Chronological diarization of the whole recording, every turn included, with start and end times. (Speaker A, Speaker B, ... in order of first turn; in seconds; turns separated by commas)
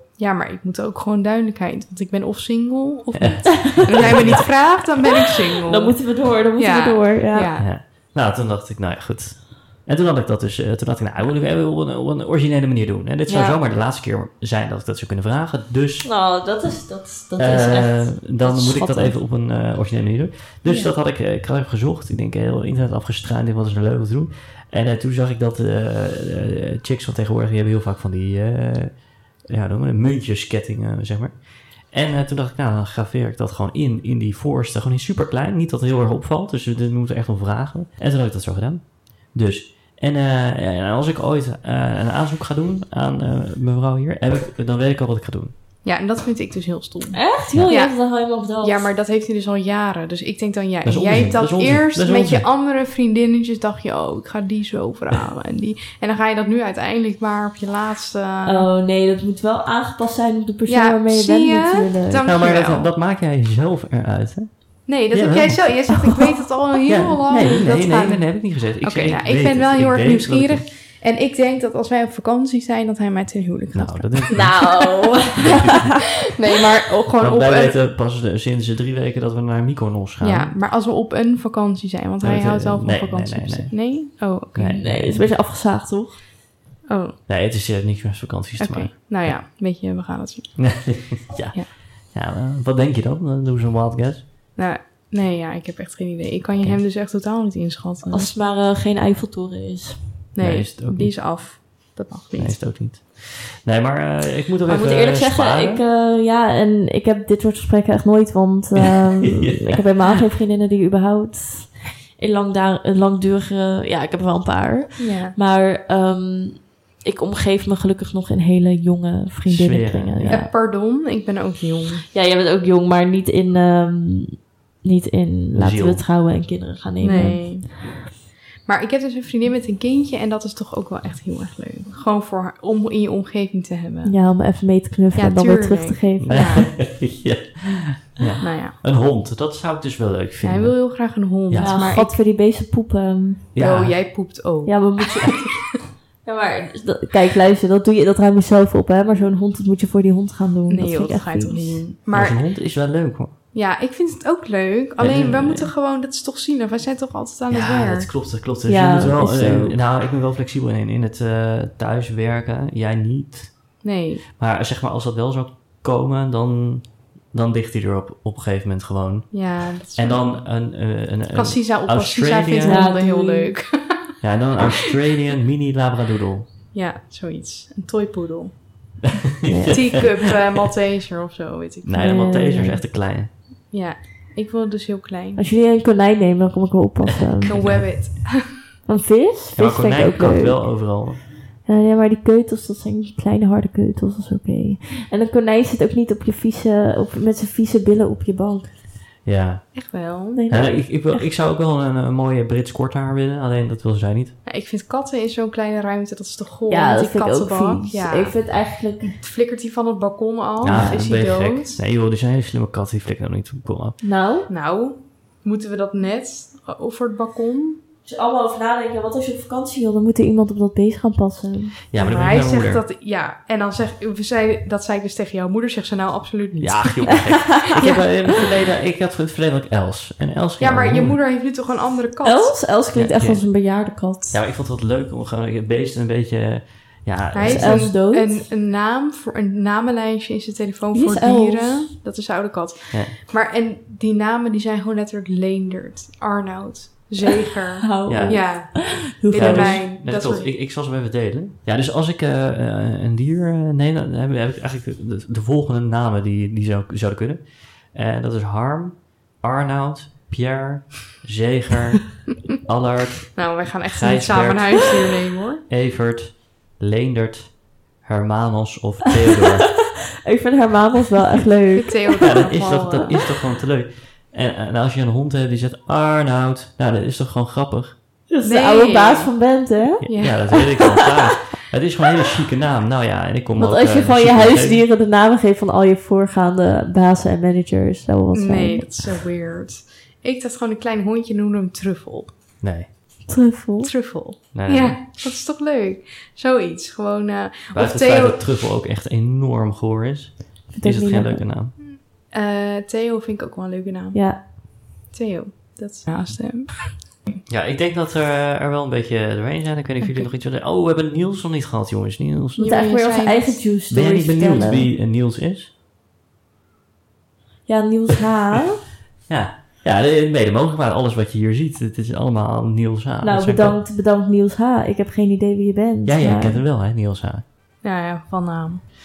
Speaker A: 0.2-7.7, Speaker B: 3.1-4.7, Speaker C: 5.7-7.5, Speaker B: 7.6-16.1, Speaker C: 13.3-13.6, Speaker C: 16.0-19.2, Speaker B: 17.4-45.5, Speaker A: 20.7-20.9, Speaker A: 45.8-58.7, Speaker C: 47.1-48.9, Speaker B: 50.8-52.5, Speaker C: 58.4-62.3, Speaker A: 60.7-62.9, Speaker B: 62.2-65.9, Speaker A: 64.8-75.8, Speaker B: 66.9-70.7, Speaker B: 73.7-75.9, Speaker C: 74.3-75.6, Speaker A: 76.3-77.8, Speaker B: 77.2-80.5, Speaker A: 80.2-85.3, Speaker B: 82.2-84.9, Speaker C: 84.8-86.2, Speaker A: 86.9-87.2, Speaker B: 87.3-89.4, Speaker A: 88.6-91.7, Speaker B: 90.6-94.2, Speaker A: 94.6-98.3, Speaker C: 98.1-100.2, Speaker A: 100.3-102.7, Speaker B: 100.4-101.4, Speaker B: 102.4-105.8, Speaker C: 104.7-120.5, Speaker B: 109.3-109.8, Speaker A: 115.0-115.3, Speaker B: 119.5-120.4, Speaker A: 120.3-122.1, Speaker C: 122.1-127.8, Speaker B: 125.5-126.1, Speaker A: 127.0-128.1, Speaker A: 128.7-134.4, Speaker C: 134.1-136.7, Speaker A: 135.1-137.0, Speaker B: 136.2-141.9, Speaker A: 138.4-138.8, Speaker A: 140.4-142.2, Speaker C: 141.6-143.5, Speaker B: 143.5-144.3, Speaker A: 143.6-145.6, Speaker C: 144.7-145.6, Speaker C: 146.2-151.9, Speaker A: 150.7-152.5, Speaker B: 152.1-153.3, Speaker A: 153.5-158.1, Speaker B: 155.0-155.7, Speaker B: 157.5-163.8, Speaker C: 158.7-159.8, Speaker A: 163.8-164.2, Speaker B: 164.4-172.9, Speaker A: 169.3-170.6, Speaker A: 171.3-174.1, Speaker C: 172.6-173.5, Speaker B: 174.2-176.5, Speaker A: 176.7-179.0, Speaker B: 179.4-180.0, Speaker C: 179.5-180.2, Speaker A: 179.7-182.3, Speaker B: 181.8-183.3, Speaker C: 182.0-182.8, Speaker A: 183.7-185.5, Speaker C: 185.4-188.0, Speaker A: 187.4-188.7, Speaker B: 187.5-187.9, Speaker C: 188.9-191.0, Speaker B: 189.6-191.2, Speaker C: 191.6-198.8, Speaker B: 199.2-200.0, Speaker A: 199.7-200.7, Speaker C: 200.3-201.2, Speaker B: 200.5-204.4, Speaker A: 204.5-208.5, Speaker C: 206.7-209.2, Speaker A: 209.2-211.8, Speaker B: 210.6-214.0, Speaker C: 214.0-214.5, Speaker A: 214.5-217.8, Speaker C: 218.1-221.8, Speaker B: 221.9-222.8, Speaker A: 222.0-228.3, Speaker B: 226.6-231.2, Speaker A: 230.6-232.6, Speaker C: 232.2-234.4, Speaker B: 232.9-237.9, Speaker A: 237.3-250.5, Speaker C: 237.4-238.4, Speaker C: 240.9-241.9, Speaker C: 247.8-249.9, Speaker B: 248.1-265.0, Speaker A: 263.4-265.6, Speaker B: 265.6-269.9, Speaker C: 270.2-272.5, Speaker A: 271.8-273.3, Speaker B: 272.2-278.0, Speaker C: 278.3-280.4, Speaker A: 278.4-280.5, Speaker B: 280.0-284.9, Speaker C: 283.6-289.2, Speaker A: 288.3-292.4, Speaker B: 292.6-292.9, Speaker C: 293.2-294.0, Speaker A: 293.8-298.4, Speaker B: 294.5-295.0, Speaker B: 297.7-301.8, Speaker C: 300.7-301.5, Speaker A: 301.8-307.3, Speaker C: 304.1-304.4, Speaker B: 307.5-312.9, Speaker A: 312.6-313.6, Speaker C: 312.6-314.9, Speaker B: 313.9-315.7, Speaker C: 317.7-318.8, Speaker B: 319.3-323.8, Speaker C: 323.2-326.6, Speaker B: 326.1-327.4, Speaker A: 327.8-328.8